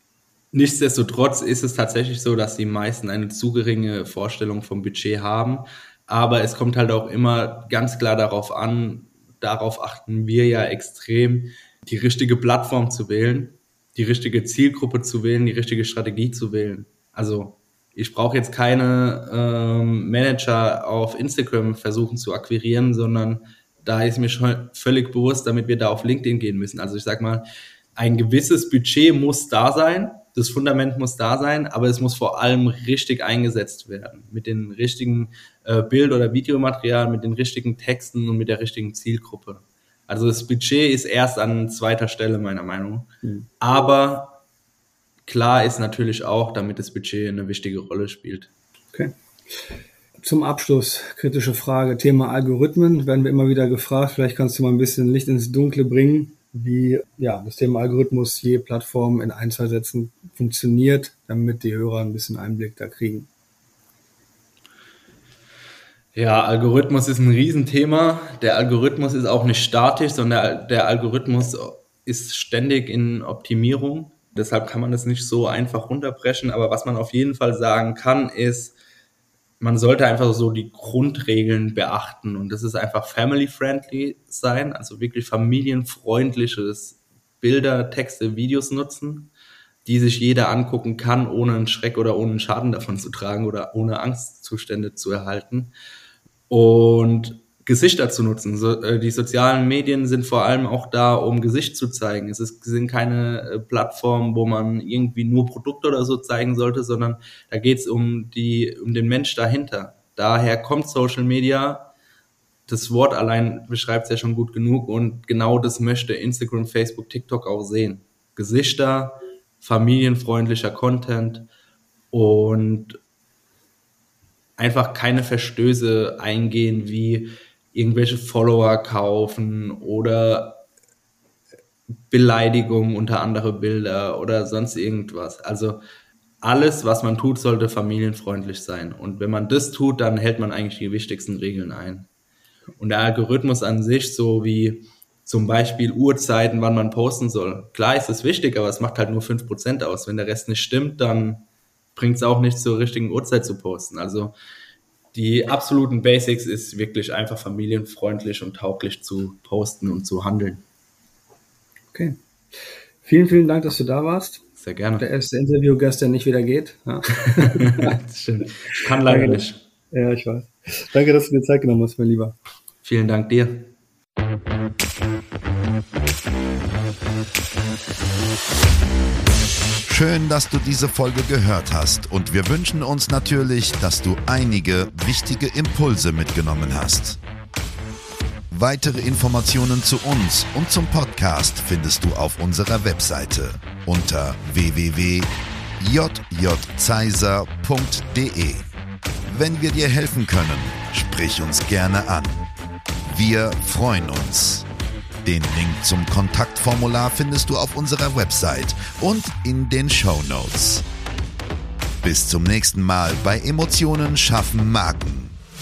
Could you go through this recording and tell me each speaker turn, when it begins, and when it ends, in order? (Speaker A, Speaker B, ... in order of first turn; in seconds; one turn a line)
Speaker A: 0.5-27.4
Speaker A: 28.0-44.4
Speaker A: 45.2-48.5
Speaker B: 48.9-49.6
Speaker B: 50.2-63.3
Speaker A: 66.2-78.7
Speaker A: 79.6-89.3
Speaker A: 89.8-95.7
Speaker A: 96.5-111.9
Speaker A: 112.7-121.5
Speaker A: 122.1-123.0
Speaker A: 124.6-130.6
Speaker A: 132.1-135.8
Speaker A: 136.4-142.1
Speaker A: 142.8-151.4
Speaker A: 151.9-154.3
Speaker A: 155.1-160.6
Speaker B: 163.0-164.4
Speaker A: 164.6-165.1
Speaker B: 165.0-168.0
Speaker A: 167.2-169.6
Speaker B: 168.7-172.4
Speaker A: 172.8-173.7
Speaker C: 179.9-187.2
Speaker C: 188.5-198.7
Speaker C: 199.3-202.5
Speaker C: 203.1-204.7
Speaker C: 205.2-210.8
Speaker C: 212.0-215.4